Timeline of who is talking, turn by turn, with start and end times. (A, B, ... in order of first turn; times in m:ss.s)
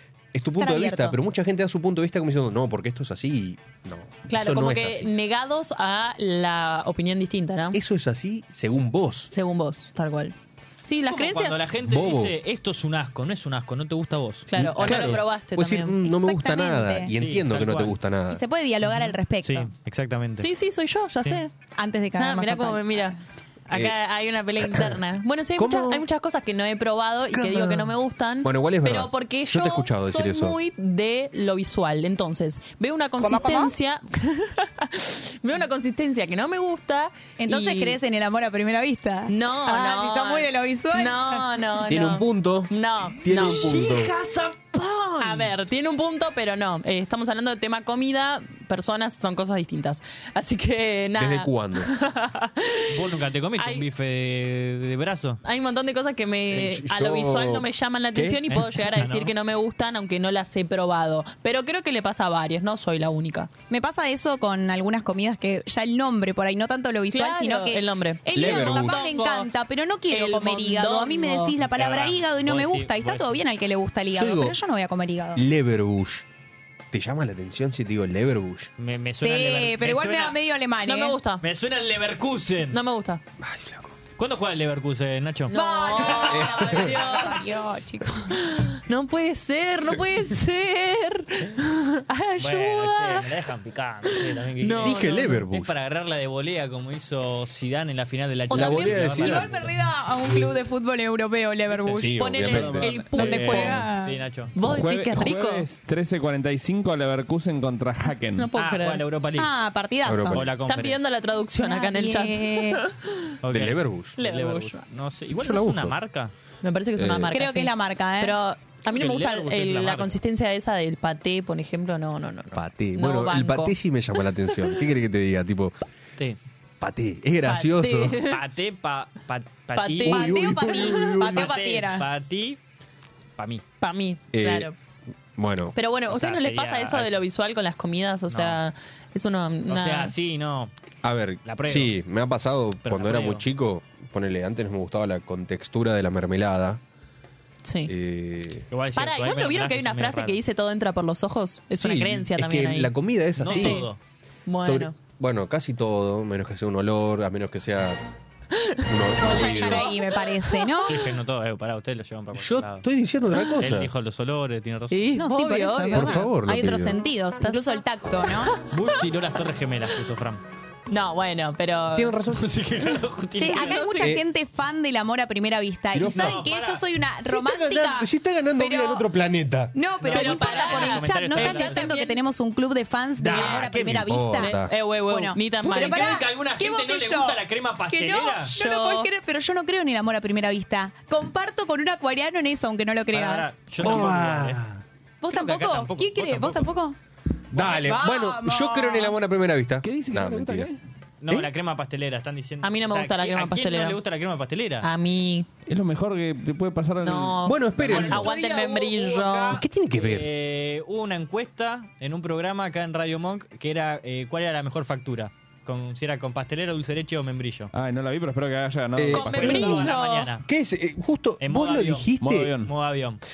0:00.3-0:05.1 A
0:00.6-0:01.2 B
0:04.3-0:07.8 C
0:07.7-0:09.3 A
0:09.3-0:10.3 C
0:10.8-0:11.6 C
0:11.1-0:15.2 D
0:11.8-0:12.3 A
0:14.5-0:16.0 C
0:14.6-0:18.4 A
0:16.0-0:17.1 B
0:17.1-0:18.0 D
0:18.3-0:19.7 B
0:19.4-0:20.5 D
0:20.4-0:21.5 C
0:21.8-0:23.2 B
0:22.2-0:23.2 C
0:23.7-0:38.0 C
0:24.6-0:24.9 A
0:25.6-0:26.0 A
0:27.3-0:30.6 A
0:33.2-0:33.7 B
0:37.4-0:41.6 B
0:39.3-0:43.7 C
0:41.9-0:44.1 A
0:43.3-0:45.5 D
0:45.2-0:52.9 C
0:51.2-0:51.9 A
0:52.9-0:55.4 D
0:53.6-0:53.8 C
0:55.4-1:03.5 C
0:56.5-0:58.4 A
0:58.5-0:59.3 D
1:03.7-1:15.4 B
1:07.1-1:09.5 C
1:08.3-1:09.0 A
1:10.1-1:11.5 C
1:11.6-1:13.4 D
1:14.1-1:14.6 A
1:15.3-1:16.2 A
1:16.9-1:18.7 A
1:18.8-1:20.4 D
1:19.2-1:21.2 B
1:20.8-1:21.4 C
1:21.4-1:22.8 D
1:22.7-1:23.2 C
1:23.4-1:23.9 A
1:24.2-1:26.1 D
1:25.5-1:27.6 C
1:25.5-1:28.4 B
1:26.2-1:27.0 A
1:28.3-1:33.3 C
1:32.4-1:39.7 D
1:34.6-1:35.4 C
1:34.8-1:35.7 A
1:38.5-1:39.5 A
1:38.5-1:42.4 B
1:41.9-1:42.9 A
1:42.2-1:43.8 C
1:42.4-1:43.7 E
1:43.1-1:44.2 B
1:43.2-1:44.5 D
1:44.5-1:45.6 C
1:44.6-1:48.5 E
1:48.4-1:49.0 C
1:48.6-1:49.5 D
1:49.3-1:50.4 B
1:50.0-1:50.4 A
1:50.3-1:51.0 D
1:50.6-1:53.2 C
1:51.5-1:52.8 B
1:53.4-1:56.3 D
1:53.5-1:54.2 A
1:54.2-1:54.8 C
1:55.3-1:56.0 A
1:56.6-2:03.7 C
1:57.0-1:57.3 A
1:57.3-1:58.4 B
1:58.9-2:00.2 D
2:02.5-2:05.8 A
2:06.8-2:08.2 A
2:07.4-2:08.4 C
2:08.3-2:12.6 D
2:09.7-2:10.3 C
2:10.0-2:11.5 A
2:10.0-2:12.1 B
2:13.4-2:13.6 D
2:13.8-2:14.7 C
2:14.3-2:14.7 A
2:15.4-2:15.7 A
2:15.7-2:20.1 C
2:16.1-2:17.2 D
2:18.3-2:18.6 D
2:19.7-2:20.7 D
2:21.0-2:26.8 A
2:21.4-2:22.0 D
2:22.8-2:23.4 D
2:27.6-2:27.9 C
2:27.9-2:28.7 A
2:28.7-2:30.4 D
2:29.0-2:32.9 C
2:31.8-2:33.9 A
2:33.4-2:34.0 D
2:33.4-2:33.9 C
2:34.4-2:34.9 C
2:34.6-2:38.0 A
2:38.6-2:40.0 C
2:38.8-2:39.9 A
2:39.2-2:41.2 B
2:40.8-2:42.9 D
2:42.3-2:43.9 A
2:43.6-2:45.0 D
2:44.9-2:46.3 C
2:45.1-2:48.5 B
2:45.9-2:47.0 A
2:47.4-2:47.8 C
2:48.7-2:50.4 D
2:50.9-2:52.1 C
2:51.9-2:52.6 A
2:52.3-2:53.9 D
2:53.4-2:59.1 B
2:53.4-2:54.2 C
2:54.0-2:54.2 A
2:55.9-2:56.5 A
2:56.0-2:56.8 D
2:57.3-2:59.7 A
2:59.7-3:14.0 B
3:00.0-3:01.9 D
3:00.1-3:02.2 C
3:03.2-3:04.7 A
3:03.3-3:03.6 C
3:04.3-3:06.2 C
3:05.6-3:08.5 D
3:08.5-3:09.1 C
3:13.1-3:14.6 D
3:13.8-3:14.8 A
3:15.2-3:17.0 B
3:15.3-3:16.7 D
3:17.5-3:20.7 A
3:17.5-3:19.2 B
3:19.8-3:20.8 E
3:21.2-3:24.9 D
3:22.6-3:24.0 C
3:24.8-3:25.5 C
3:25.7-3:28.0 E
3:27.0-3:29.6 C
3:27.4-3:28.3 A
3:27.8-3:37.7 D
3:29.5-3:30.3 A
3:37.7-3:39.8 E
3:39.0-3:39.9 A
3:39.1-3:40.3 C
3:39.2-3:40.4 D
3:40.4-3:42.5 A
3:41.4-3:42.1 D
3:42.2-3:42.7 E
3:42.6-3:43.2 D